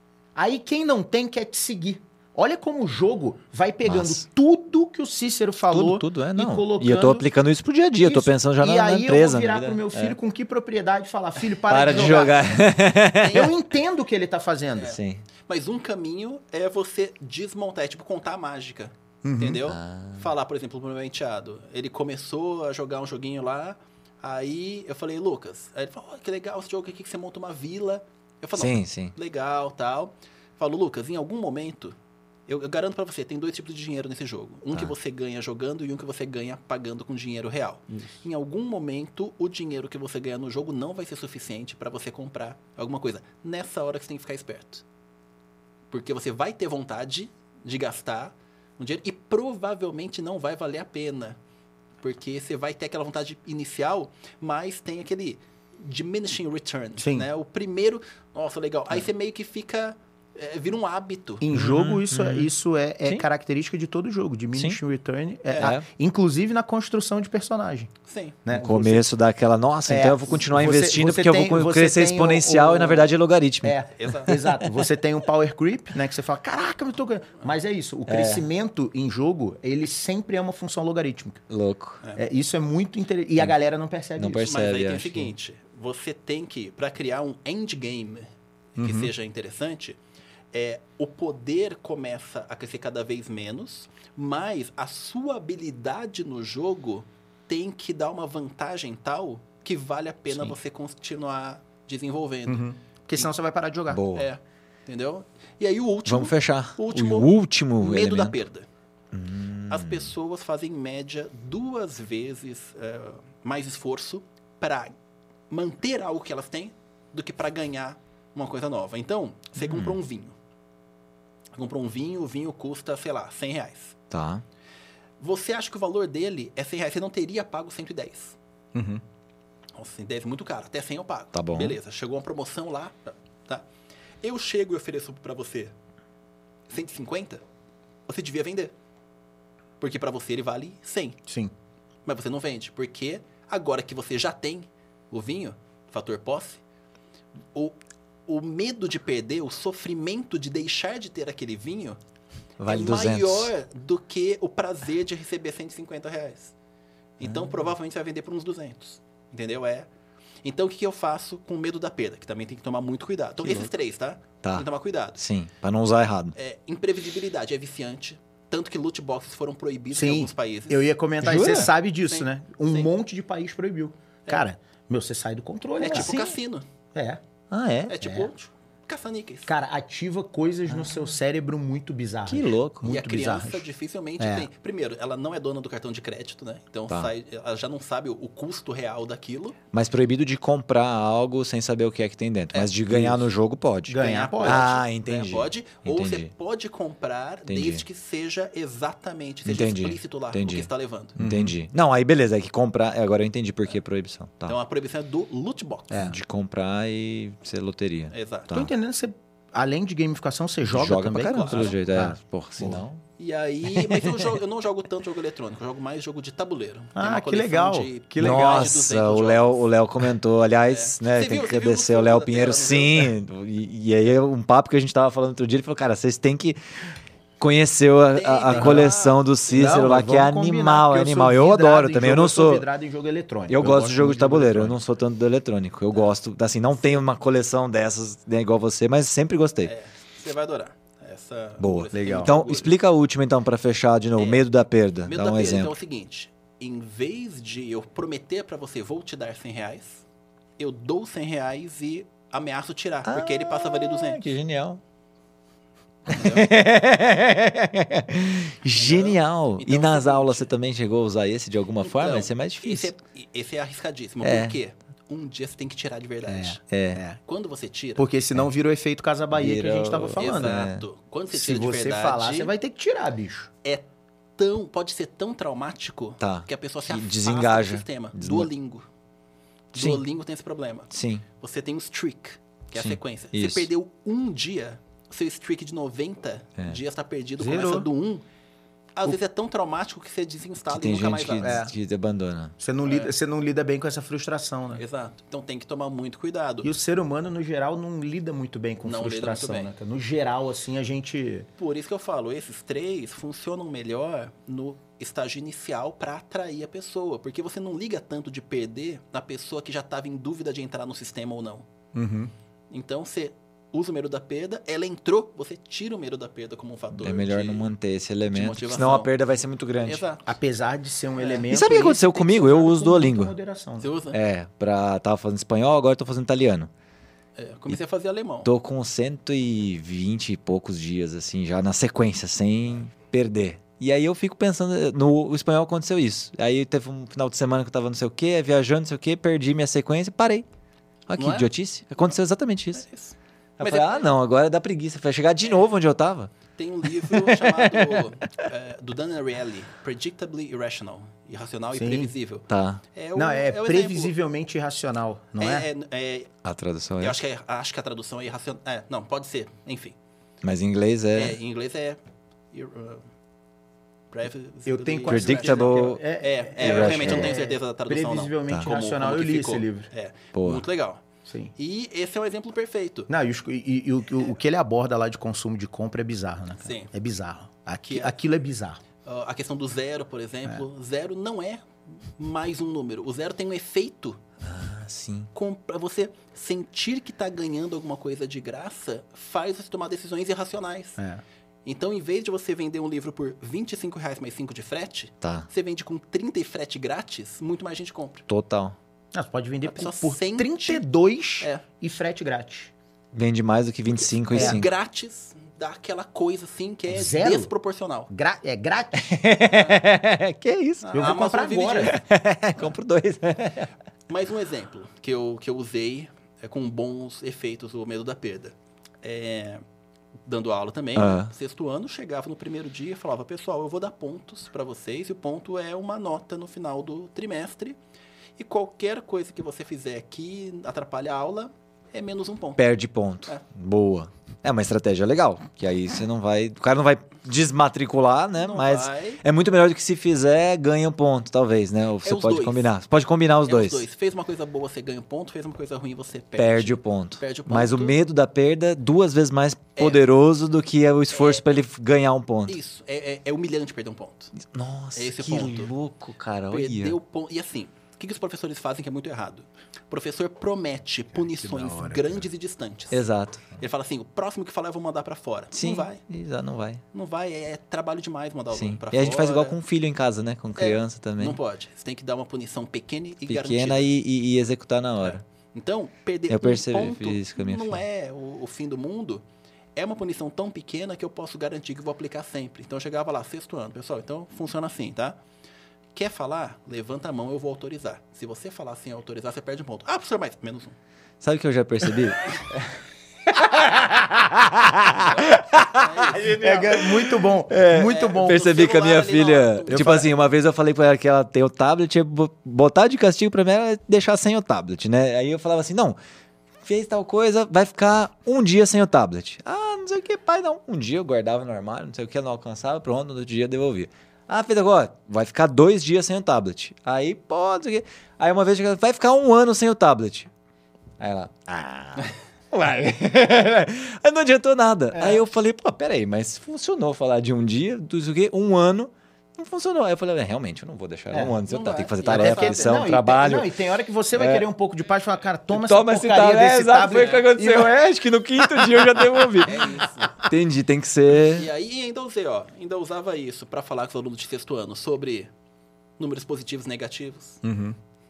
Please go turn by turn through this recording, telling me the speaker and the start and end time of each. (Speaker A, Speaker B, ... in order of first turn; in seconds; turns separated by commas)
Speaker A: 0.3-7.3, Speaker B: 3.8-4.2, Speaker B: 5.7-10.2, Speaker A: 8.0-12.6, Speaker B: 11.7-13.5, Speaker C: 11.8-12.6, Speaker C: 13.1-13.5, Speaker A: 13.2-14.9, Speaker C: 14.8-31.9, Speaker B: 14.9-15.2, Speaker A: 19.2-19.6, Speaker B: 19.7-20.3, Speaker B: 28.6-29.1, Speaker C: 32.5-44.8, Speaker C: 45.9-51.4, Speaker C: 52.0-61.4, Speaker A: 57.0-57.3, Speaker A: 61.4-67.9, Speaker B: 61.5-62.5, Speaker C: 65.5-65.8, Speaker B: 65.6-65.8, Speaker C: 68.0-68.4, Speaker A: 68.4-69.0, Speaker B: 68.5-74.5, Speaker A: 69.9-81.4, Speaker C: 74.0-74.4, Speaker B: 78.1-78.5, Speaker B: 81.5-82.0, Speaker A: 82.2-84.5, Speaker B: 84.2-85.3, Speaker C: 84.4-90.0, Speaker A: 88.8-89.1, Speaker C: 90.5-102.6, Speaker B: 100.3-100.5, Speaker A: 102.5-104.0, Speaker B: 103.9-104.3, Speaker C: 104.1-108.7, Speaker B: 106.0-108.4, Speaker B: 109.1-110.1, Speaker C: 109.7-114.9, Speaker C: 115.5-120.3, Speaker B: 119.6-120.0, Speaker C: 121.5-124.0, Speaker B: 124.1-124.4, Speaker C: 125.2-128.4, Speaker A: 128.7-129.0, Speaker C: 129.8-133.7, Speaker B: 131.3-131.8, Speaker C: 134.2-135.7, Speaker C: 136.7-137.4, Speaker C: 138.1-138.7, Speaker C: 139.8-141.2, Speaker A: 141.3-141.5, Speaker C: 142.1-146.6, Speaker C: 147.5-152.0, Speaker B: 152.6-153.5, Speaker C: 152.7-156.5, Speaker C: 157.2-159.9, Speaker B: 157.2-157.6, Speaker C: 160.4-165.2, Speaker B: 164.4-166.3, Speaker C: 166.3-172.9, Speaker A: 169.9-176.3, Speaker B: 171.2-171.7, Speaker C: 175.8-176.7, Speaker B: 175.9-176.3, Speaker A: 176.9-177.2, Speaker B: 177.5-178.1, Speaker C: 177.9-179.5, Speaker A: 178.0-178.3, Speaker A: 179.4-183.7, Speaker B: 182.3-182.9, Speaker C: 182.8-189.6, Speaker A: 184.2-184.5, Speaker B: 189.7-196.3, Speaker C: 192.5-193.1, Speaker A: 192.9-193.2, Speaker A: 193.9-194.6, Speaker C: 194.0-201.2, Speaker B: 197.5-197.8, Speaker B: 199.4-204.6, Speaker A: 201.2-201.5, Speaker C: 204.5-206.0, Speaker A: 205.9-206.2, Speaker B: 205.9-208.7, Speaker C: 208.1-208.5, Speaker A: 208.5-212.8, Speaker B: 210.7-213.0, Speaker C: 211.3-211.8, Speaker C: 213.2-219.6, Speaker B: 213.7-214.2, Speaker A: 216.9-218.7, Speaker B: 218.2-226.6, Speaker C: 220.6-223.1, Speaker B: 227.4-232.7, Speaker C: 228.1-229.2, Speaker A: 228.5-228.9, Speaker A: 229.5-234.8, Speaker B: 233.5-239.7, Speaker C: 239.6-242.7, Speaker B: 241.6-245.7, Speaker A: 241.9-242.3, Speaker C: 244.2-244.4, Speaker C: 245.1-250.0, Speaker C: 250.6-254.2, Speaker B: 253.1-254.8, Speaker C: 256.1-256.5, Speaker B: 256.1-262.9, Speaker C: 258.7-260.5, Speaker C: 261.8-266.6, Speaker B: 264.2-264.6, Speaker A: 266.2-267.2, Speaker B: 266.7-267.0, Speaker C: 267.2-268.0, Speaker A: 268.0-270.6, Speaker B: 269.3-270.8, Speaker C: 270.2-272.5, Speaker A: 271.3-273.5, Speaker C: 273.6-278.9, Speaker B: 276.2-278.5, Speaker C: 279.7-288.2, Speaker B: 279.7-280.0, Speaker B: 280.9-281.2, Speaker B: 282.8-283.7, Speaker A: 287.4-287.9, Speaker C: 288.9-291.6, Speaker B: 290.7-292.5, Speaker A: 291.4-291.7, Speaker A: 292.6-294.8, Speaker C: 292.8-293.1, Speaker C: 294.7-296.7, Speaker A: 296.6-301.5, Speaker C: 298.8-299.7, Speaker C: 301.6-311.6, Speaker A: 311.9-312.3, Speaker C: 312.7-317.7, Speaker B: 317.0-320.0, Speaker C: 318.3-319.1, Speaker C: 319.8-320.3, Speaker A: 320.2-323.9, Speaker C: 321.1-321.5, Speaker B: 321.5-323.3, Speaker C: 323.8-324.2, Speaker B: 324.1-326.7, Speaker C: 327.4-328.5, Speaker B: 328.4-340.4, Speaker B: 341.1-342.8, Speaker C: 341.2-341.5, Speaker C: 342.7-344.1, Speaker B: 343.6-346.3, Speaker C: 345.4-345.7, Speaker C: 346.6-354.1, Speaker B: 347.0-348.1, Speaker A: 351.7-352.1, Speaker B: 352.5-352.8, Speaker A: 353.1-355.7, Speaker C: 355.4-356.3, Speaker B: 356.4-357.2, Speaker C: 357.0-359.9, Speaker B: 360.4-361.4, Speaker C: 361.1-362.0, Speaker C: 362.5-363.0, Speaker C: 364.1-371.0, Speaker A: 364.6-369.9, Speaker B: 365.1-366.0, Speaker B: 366.6-367.3, Speaker B: 370.3-370.6, Speaker A: 371.3-371.5, Speaker C: 371.5-373.1, Speaker A: 373.1-378.8, Speaker C: 376.6-376.9, Speaker C: 377.9-378.1, Speaker C: 379.1-384.2, Speaker B: 384.4-385.3, Speaker C: 385.3-391.0, Speaker C: 391.6-398.3, Speaker B: 395.2-395.5, Speaker B: 398.3-398.7, Speaker A: 399.1-402.7, Speaker C: 399.7-400.8, Speaker B: 403.1-404.7, Speaker C: 403.9-408.1, Speaker A: 404.3-404.6, Speaker A: 406.9-407.5, Speaker A: 408.1-409.3, Speaker B: 409.0-411.1, Speaker C: 409.5-409.8, Speaker C: 410.8-412.0, Speaker A: 410.9-412.0, Speaker B: 411.8-413.7, Speaker C: 414.1-419.6, Speaker C: 420.2-427.8, Speaker B: 420.9-421.3, Speaker C: 428.4-432.6, Speaker B: 432.6-443.8, Speaker C: 438.3-439.2, Speaker C: 442.0-442.7, Speaker C: 443.5-448.0, Speaker B: 446.4-452.6, Speaker C: 449.8-450.0, Speaker C: 451.1-451.4, Speaker C: 452.5-454.3, Speaker B: 454.4-457.0, Speaker C: 454.9-455.7, Speaker C: 456.5-466.0, Speaker A: 461.2-462.2, Speaker B: 462.9-463.5, Speaker B: 465.5-466.8, Speaker C: 466.9-469.6, Speaker B: 468.5-471.4, Speaker C: 470.6-473.9, Speaker B: 473.3-475.2, Speaker C: 475.0-479.2, Speaker B: 476.3-477.8, Speaker C: 479.8-485.2, Speaker C: 485.9-490.8, Speaker B: 491.2-492.6, Speaker B: 493.3-506.0, Speaker C: 495.0-496.3, Speaker A: 496.4-498.4, Speaker C: 497.7-500.1, Speaker A: 499.7-500.1, Speaker B: 506.6-520.3, Speaker B: 521.0-533.5, Speaker A: 524.9-525.3, Speaker C: 531.5-532.8, Speaker A: 532.0-537.7, Speaker B: 534.1-534.5, Speaker B: 535.5-541.5, Speaker C: 536.9-537.3, Speaker A: 538.5-539.0, Speaker C: 539.4-540.3, Speaker C: 541.2-545.3, Speaker C: 546.0-547.4, Speaker A: 547.4-547.8